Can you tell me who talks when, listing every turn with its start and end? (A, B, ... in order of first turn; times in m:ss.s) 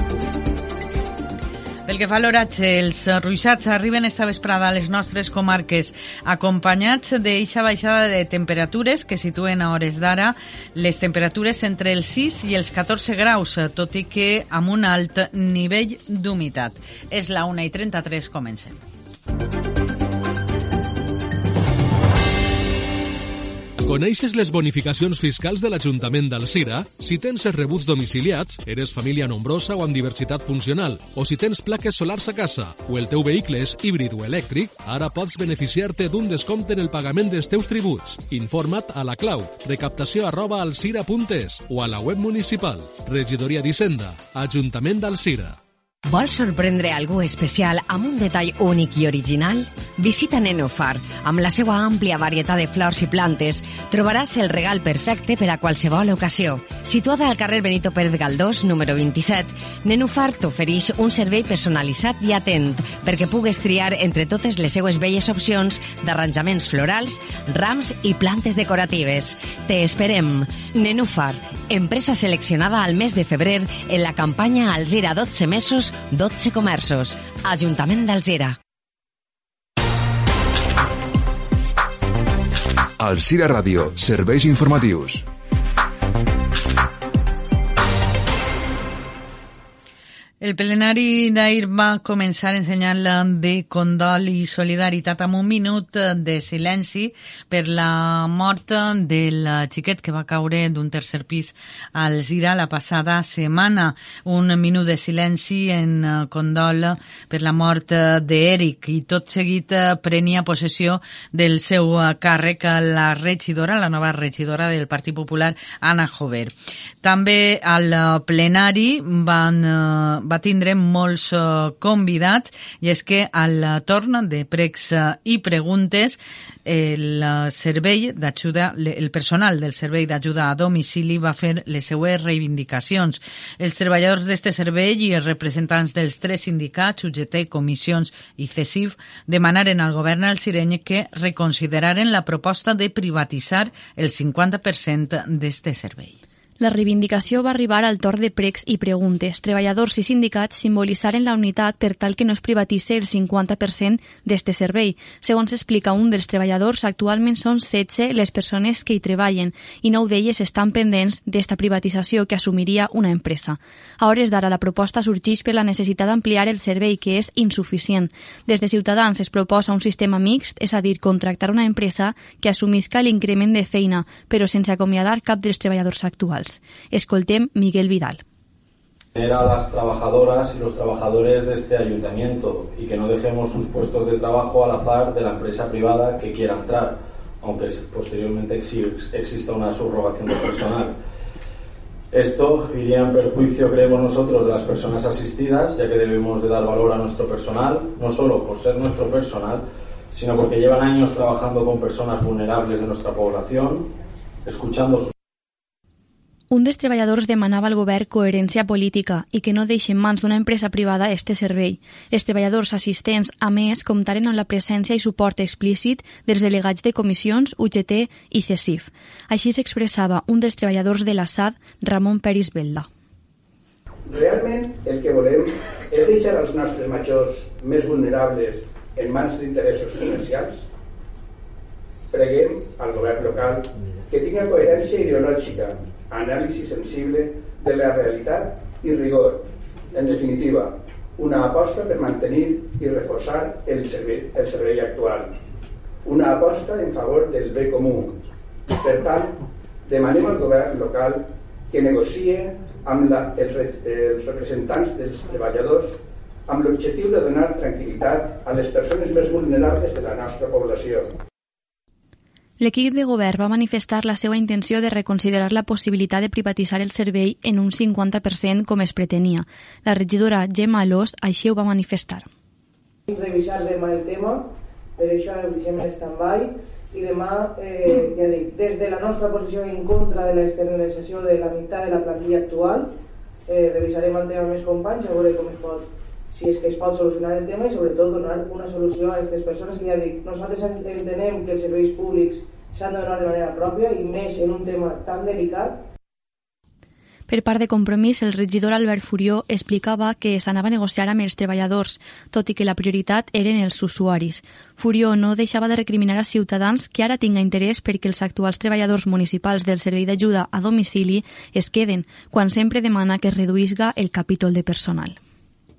0:01.8-0:18.8 A
0:23.8-0:45.6 B
0:46.1-1:18.6 C
1:23.0-1:25.2 D
1:30.4-2:26.2 A
2:26.6-2:58.2 E
2:59.1-3:11.0 F
3:12.1-3:23.9 F
3:24.4-3:25.1 F
3:26.5-3:42.9 E
3:44.1-3:50.6 G
3:52.1-4:05.3 G
4:06.0-4:08.2 G
4:08.8-4:21.2 G
4:22.6-4:32.3 E
4:33.1-4:42.9 H
4:43.5-4:55.8 H
4:57.3-5:15.2 E